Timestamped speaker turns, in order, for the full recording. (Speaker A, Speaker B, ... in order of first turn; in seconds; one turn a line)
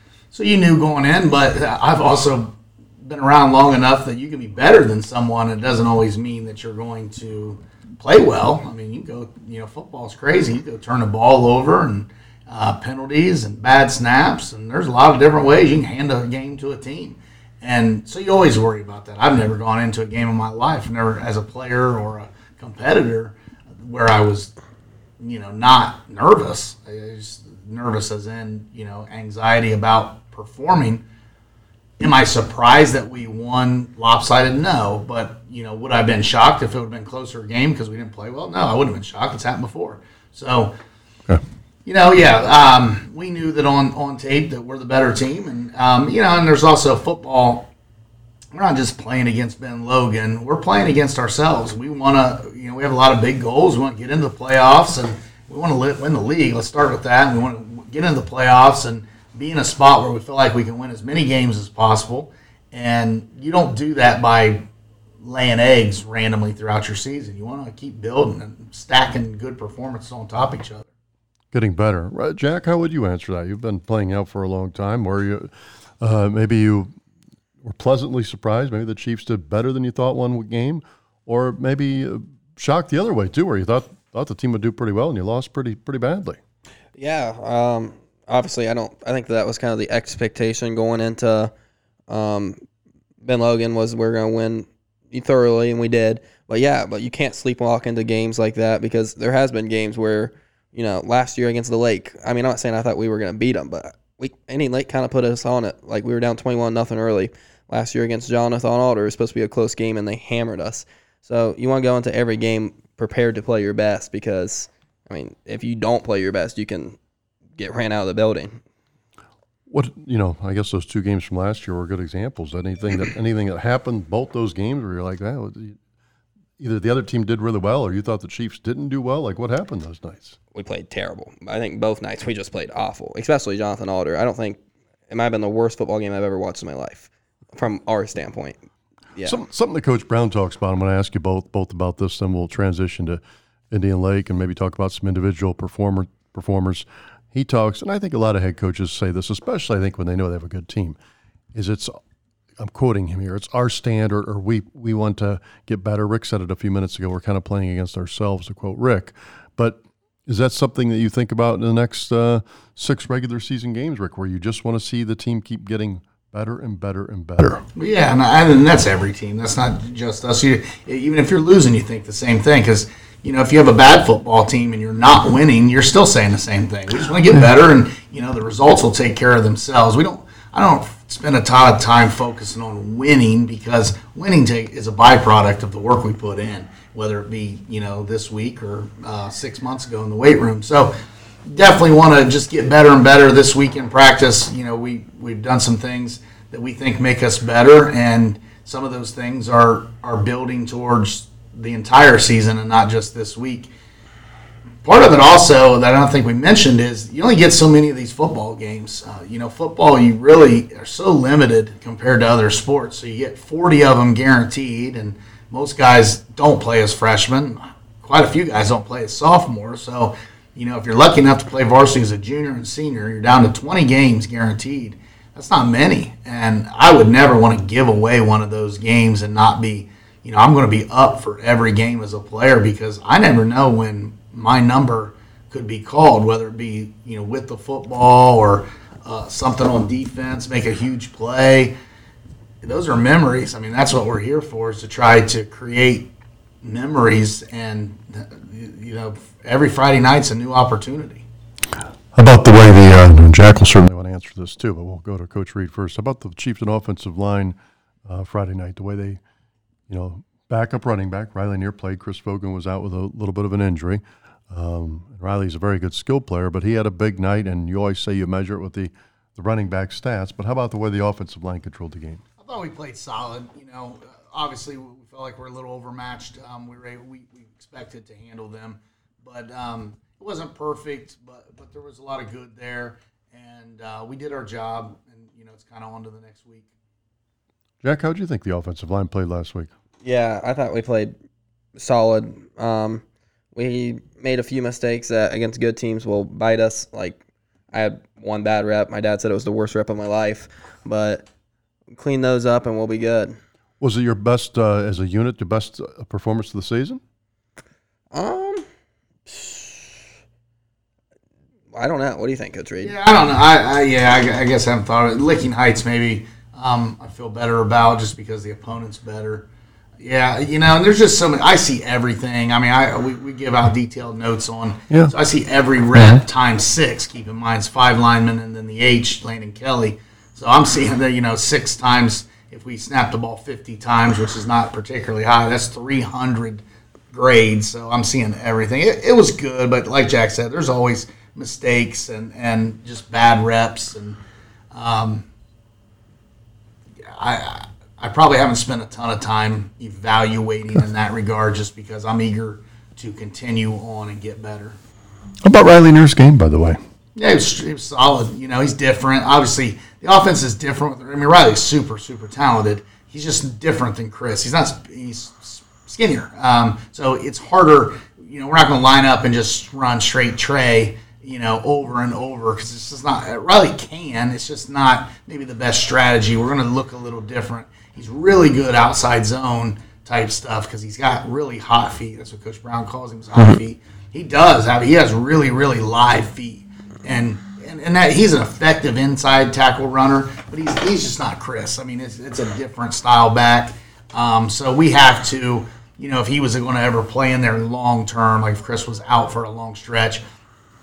Speaker A: 0.3-24.5
Speaker A: 25.2-31.0
Speaker A: 32.0-40.7
Speaker A: 41.8-47.7
Speaker A: 48.5-64.7
Speaker A: 65.2-70.9
Speaker B: 71.5-77.0
Speaker B: 77.6-86.4
Speaker C: 87.0-91.5
Speaker C: 92.1-92.6
Speaker C: 93.2-117.0
Speaker C: 117.6-118.6
Speaker B: 119.7-125.8
Speaker B: 126.6-130.4
Speaker C: 130.5-139.4
Speaker B: 139.2-151.0
Speaker B: 151.5-152.0
Speaker B: 152.6-167.6
Speaker A: 167.8-203.7
Speaker A: 204.8-241.8
Speaker A: 242.6-246.1
Speaker A: 246.6-251.2
Speaker B: 252.1-259.2
Speaker B: 259.9-272.2
Speaker A: 272.4-286.7
Speaker B: 287.8-289.7
Speaker C: 290.0-291.1
Speaker C: 291.8-293.0
Speaker C: 293.5-301.3
Speaker C: 301.9-303.4
Speaker B: 303.8-307.0
Speaker C: 308.1-308.6
Speaker C: 309.3-310.0
Speaker C: 311.7-312.9
Speaker A: 312.8-319.5
Speaker A: 320.0-344.2
Speaker B: 325.9-326.2
Speaker A: 344.7-345.3
Speaker A: 347.0-354.8
Speaker B: 355.4-356.8
Speaker A: 357.1-400.2